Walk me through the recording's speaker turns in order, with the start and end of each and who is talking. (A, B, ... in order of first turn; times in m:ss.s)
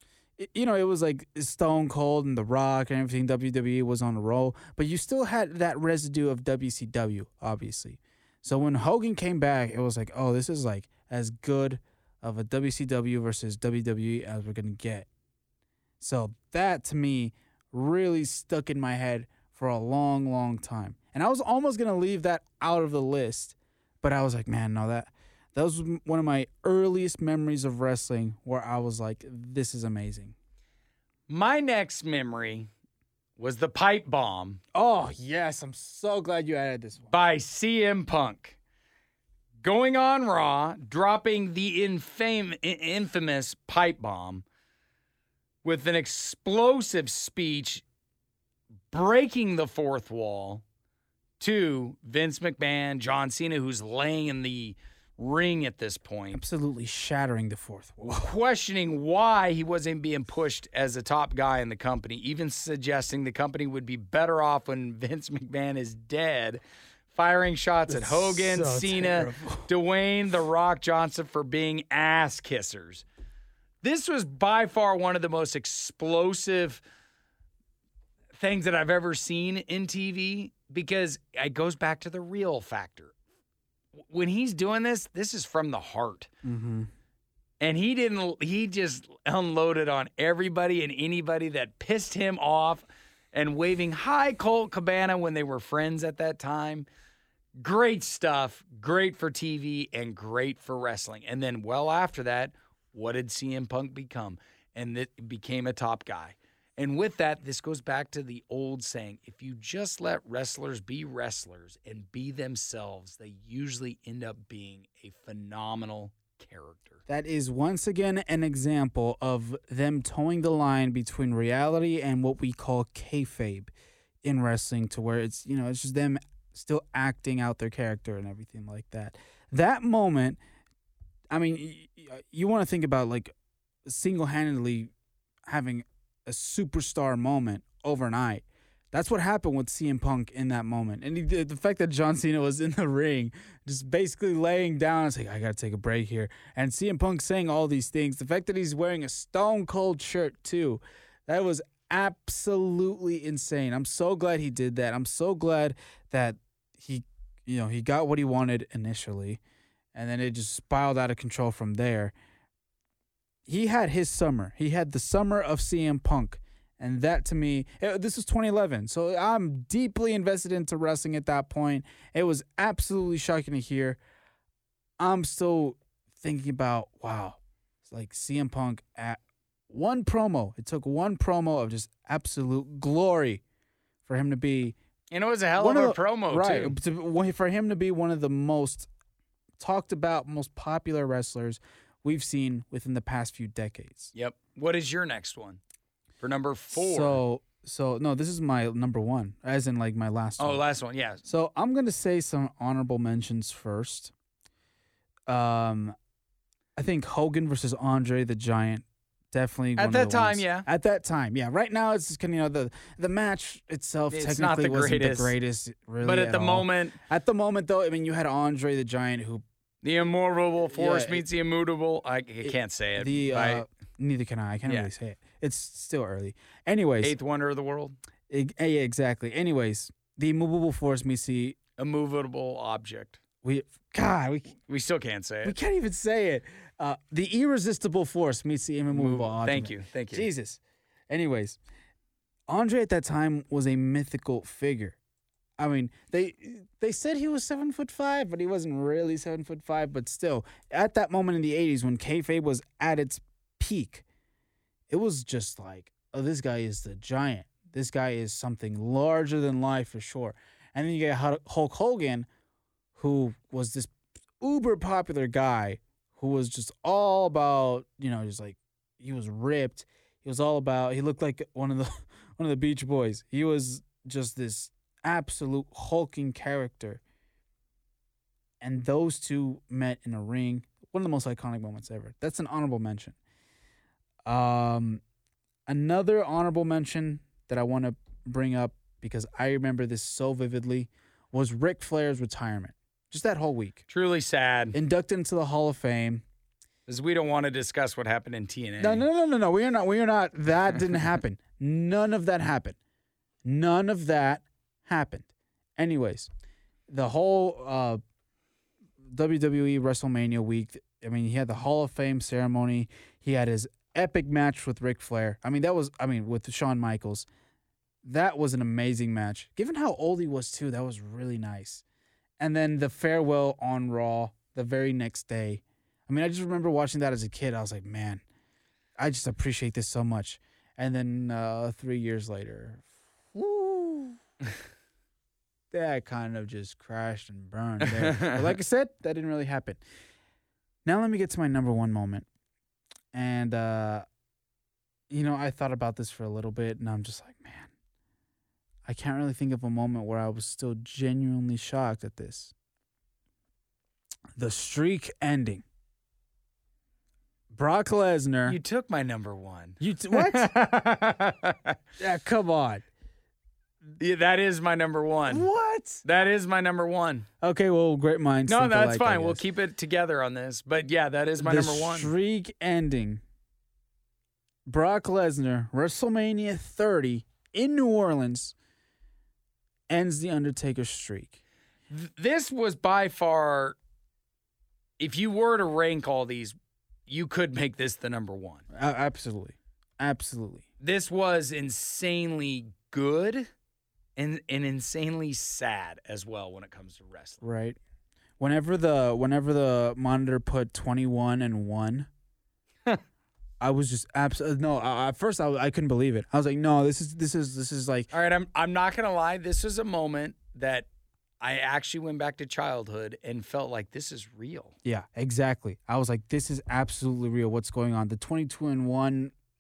0:00.4-0:15.1 A
0:16.0-0:30.4 A
0:31.3-0:32.7 B
0:33.4-0:34.6 B
0:34.7-0:37.1 A
0:37.1-0:38.6 B
0:39.6-0:44.4 B
0:45.6-0:47.8 B
0:48.9-0:50.6 B
0:51.4-0:56.4 B
0:56.3-0:58.3 A
0:58.2-1:06.6 B
1:07.1-1:13.0 B
1:07.9-1:09.7 A
1:13.8-1:16.8 B
1:18.4-1:23.1 B
1:23.9-1:26.3 B
1:26.4-1:26.9 A
1:27.6-1:36.9 B
1:37.6-1:57.0 B
1:57.1-2:03.7 A
2:04.2-2:10.4 A
2:11.3-2:13.3 A
2:13.8-2:14.9 A
2:15.5-2:39.4 A
2:39.9-2:42.2 A
2:43.5-2:54.0 A
2:55.0-3:03.4 A
3:04.0-3:04.8 A
3:05.1-3:06.8 B
3:05.6-3:08.9 A
3:09.6-3:14.1 A
3:14.1-3:15.6 B
3:16.2-3:17.2 B
3:16.7-3:20.6 A
3:20.4-3:21.2 B
3:21.3-3:24.1 A
3:25.3-3:26.0 A
3:26.8-3:39.4 A
3:29.8-3:30.7 B
3:34.1-3:35.3 B
3:36.0-3:37.0 B
3:39.8-3:43.6 B
3:40.7-3:41.3 A
3:42.4-3:47.2 A
3:47.0-3:48.0 B
3:48.3-3:51.6 A
3:51.8-3:53.2 B
3:53.4-3:54.5 A
3:54.5-3:55.6 B
3:55.4-4:01.6 A
3:58.9-4:00.3 B
4:02.5-4:05.0 A
4:05.6-4:14.0 A
4:14.9-4:22.3 A
4:23.0-4:37.0 A
4:38.6-4:43.2 A
4:44.2-4:45.0 A
4:45.7-4:53.8 A
4:53.9-4:54.8 B
4:54.7-4:56.2 A
4:56.9-4:59.1 B
4:58.8-5:02.8 A
5:03.4-5:06.3 A
5:06.9-5:08.0 A
5:09.0-5:17.3 A
5:18.0-5:21.8 A
5:22.4-5:28.2 A
5:29.0-5:34.2 A
5:35.7-5:39.8 A
5:37.8-5:38.5 B
5:40.8-5:42.3 A
5:43.1-5:44.0 A
5:45.1-5:47.7 A
5:48.8-5:52.5 A
5:54.4-5:55.6 A
5:57.5-5:58.6 A
5:58.4-6:01.8 B
5:59.8-6:00.5 A
6:02.0-6:02.8 A
6:04.0-6:05.5 B
6:05.3-6:06.0 A
6:06.0-6:07.3 B
6:07.4-6:09.4 A
6:08.5-6:12.1 B
6:11.4-6:13.2 A
6:14.7-6:18.6 A
6:19.9-6:21.4 A
6:21.9-6:23.8 B
6:25.0-6:26.6 B
6:27.1-6:28.6 B
6:28.7-6:30.7 A
6:30.8-6:33.5 B
6:34.2-6:37.4 B
6:37.4-6:37.8 A
6:38.4-6:42.1 A
6:43.6-6:48.1 A
6:48.1-6:50.9 B
6:51.4-6:54.8 B
6:54.8-6:59.3 A